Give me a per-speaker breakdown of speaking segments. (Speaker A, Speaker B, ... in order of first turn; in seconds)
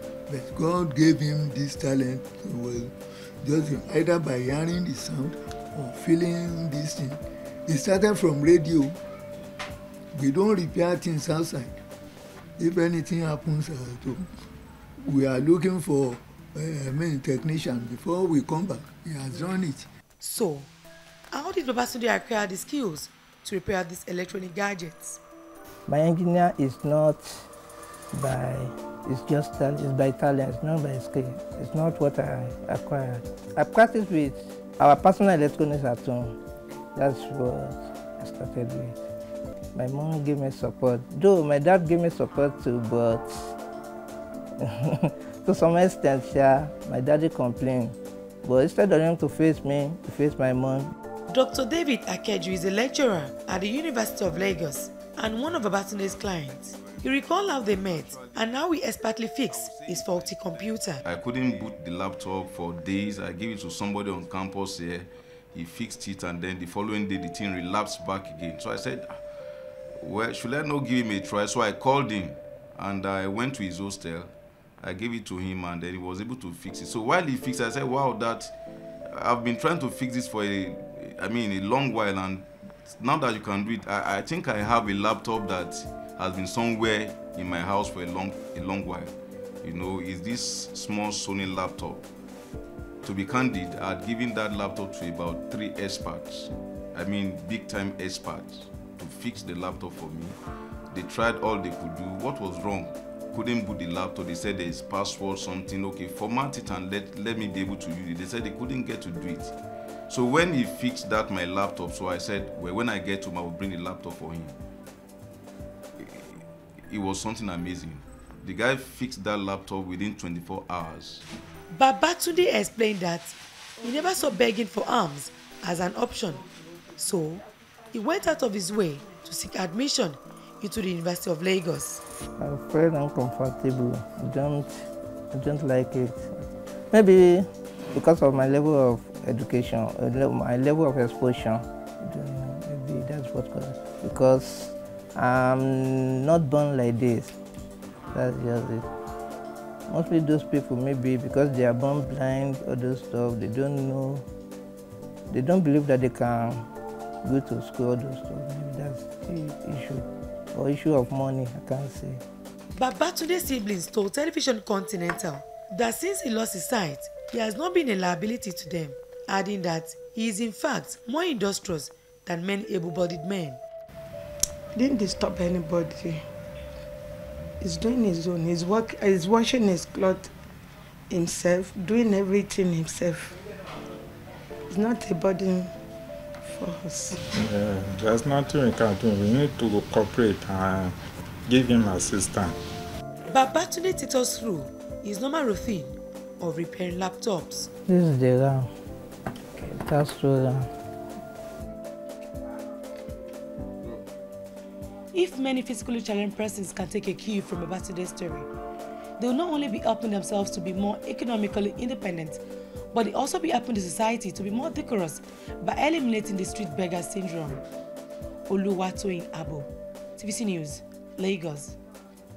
Speaker A: 0.3-9.0, 10.1-11.8, 12.6-14.3, 15.0-19.9
Speaker B: 20.2-20.7, 21.3-25.2, 51.3-61.0, 121.7-132.0, 162.7-173.6, 193.3-197.7, 205.1-208.5, 209.2-217.6, 218.5-221.8
Speaker C: 25.9-27.5, 28.1-36.4, 37.0-39.0, 39.7-43.5, 44.6-50.9, 132.4-147.3, 148.1-148.9, 149.9-154.2, 155.3-156.7, 157.2-162.2, 197.9-198.7, 199.5-200.7
Speaker D: 56.4-69.2, 70.0-78.5, 79.1-92.0, 93.0-100.4, 100.9-109.5, 110.1-114.5, 116.0-121.2
Speaker E: 174.7-176.2, 177.6-180.3, 181.1-183.4, 184.7-185.7, 186.4-187.2
Speaker F: 187.3-190.9, 191.5-192.6